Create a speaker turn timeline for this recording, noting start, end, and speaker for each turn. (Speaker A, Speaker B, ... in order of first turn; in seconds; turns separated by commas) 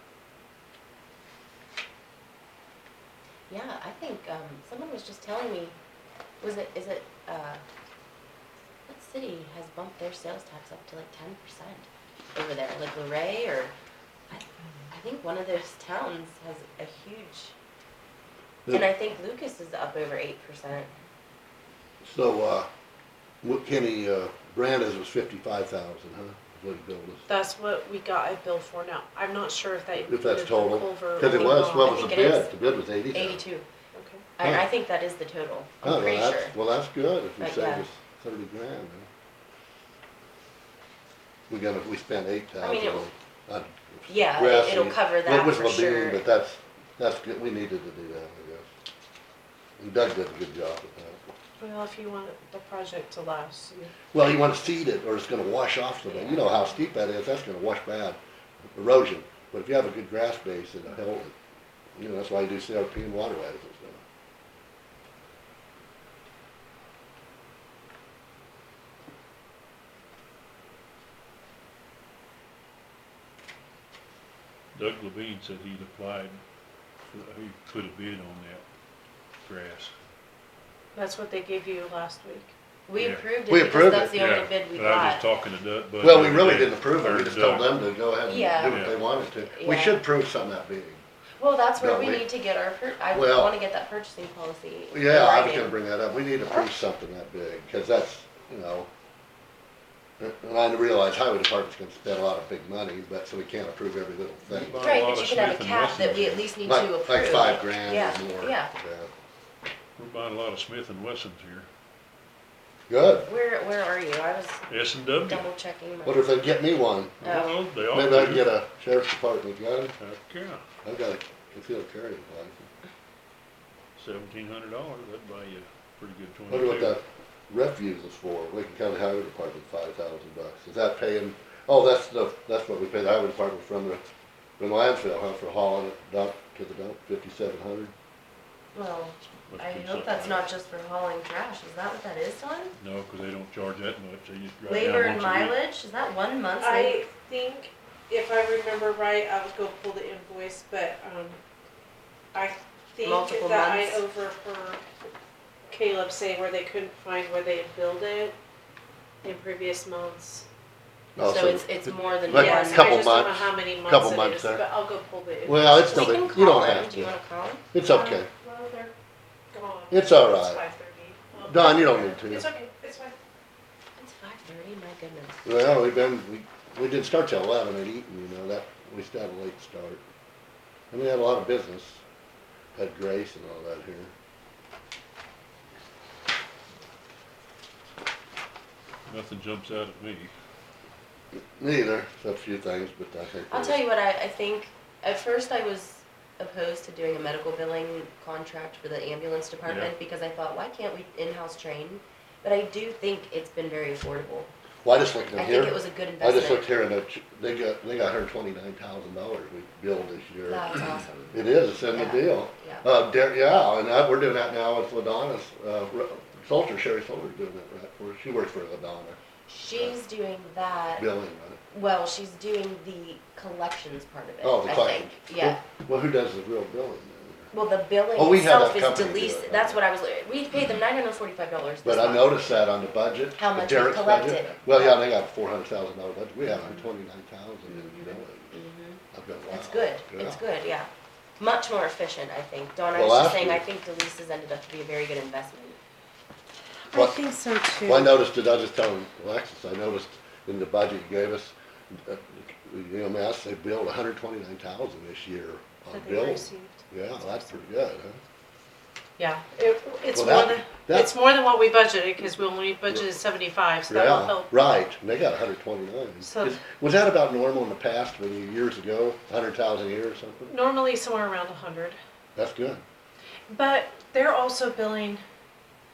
Speaker A: 3.5-5.7, Speaker A: 6.4-7.6, Speaker A: 8.9-13.7, Speaker A: 14.3-17.5, Speaker A: 18.7-20.9, Speaker B: 22.0-22.7, Speaker B: 23.4-27.3, Speaker C: 27.3-32.1, Speaker B: 30.0-33.4, Speaker A: 31.2-32.5, Speaker A: 33.1-33.6, Speaker C: 33.9-34.2, Speaker A: 34.4-36.5, Speaker B: 34.4-34.6, Speaker B: 35.8-39.1, Speaker A: 37.4-37.9, Speaker B: 41.5-48.7, Speaker A: 42.6-43.1, Speaker A: 44.1-46.2, Speaker B: 49.8-51.2, Speaker C: 51.6-53.9, Speaker B: 54.1-58.2, Speaker B: 58.7-61.3, Speaker B: 62.0-64.0, Speaker D: 74.7-76.4, Speaker D: 77.1-78.6, Speaker D: 79.4-79.9, Speaker C: 80.9-82.5, Speaker A: 82.9-85.3, Speaker D: 83.0-83.2, Speaker B: 83.5-84.2, Speaker D: 84.1-87.8, Speaker B: 86.0-91.0, Speaker A: 88.2-88.9, Speaker D: 88.7-89.0, Speaker A: 89.5-90.0, Speaker A: 91.4-95.8, Speaker B: 91.8-92.2, Speaker B: 93.1-93.5, Speaker B: 94.9-98.9, Speaker B: 100.2-104.8, Speaker D: 104.5-106.5, Speaker A: 104.8-108.7, Speaker B: 106.6-109.1, Speaker D: 110.0-111.7, Speaker B: 112.9-113.3, Speaker A: 113.2-114.6, Speaker D: 114.7-115.5, Speaker A: 115.2-116.3, Speaker B: 116.0-117.4, Speaker D: 117.2-118.5, Speaker A: 117.2-117.5, Speaker B: 117.9-119.9, Speaker D: 120.0-120.6, Speaker B: 120.8-122.7, Speaker D: 124.0-127.0, Speaker B: 126.5-134.0, Speaker B: 134.6-137.9, Speaker A: 138.7-142.7, Speaker D: 139.5-140.5, Speaker D: 142.8-145.6, Speaker A: 144.7-147.0, Speaker C: 146.6-151.4, Speaker C: 152.3-154.8, Speaker A: 153.0-154.0, Speaker C: 155.7-158.3, Speaker C: 159.2-160.4, Speaker B: 161.2-164.6, Speaker A: 161.2-163.0, Speaker C: 162.3-166.2, Speaker B: 165.4-167.1, Speaker A: 165.8-167.6, Speaker B: 167.7-168.3, Speaker C: 167.8-168.9, Speaker C: 169.5-173.2, Speaker B: 169.9-170.6, Speaker B: 171.5-172.5, Speaker A: 174.0-175.5, Speaker B: 175.4-180.0, Speaker B: 180.9-182.0, Speaker B: 182.7-184.1, Speaker D: 189.1-190.3, Speaker B: 191.6-193.8, Speaker A: 193.5-204.5, Speaker D: 199.6-199.9, Speaker B: 204.8-219.2, Speaker A: 205.3-206.7, Speaker A: 210.5-212.8, Speaker A: 219.5-221.1, Speaker B: 221.0-221.6, Speaker A: 221.7-225.6, Speaker B: 224.4-227.5, Speaker A: 227.5-232.7, Speaker B: 228.1-229.8, Speaker B: 231.8-238.6, Speaker A: 233.3-235.0, Speaker A: 236.5-236.8, Speaker A: 237.7-245.8, Speaker B: 239.1-240.4, Speaker B: 242.9-243.6, Speaker C: 246.9-248.2, Speaker B: 246.9-247.2, Speaker B: 247.8-258.2, Speaker C: 255.9-257.5, Speaker C: 259.2-264.5, Speaker B: 260.1-261.1, Speaker B: 263.9-270.5, Speaker C: 266.2-266.6, Speaker C: 270.5-272.0, Speaker B: 272.4-272.8, Speaker C: 273.5-275.2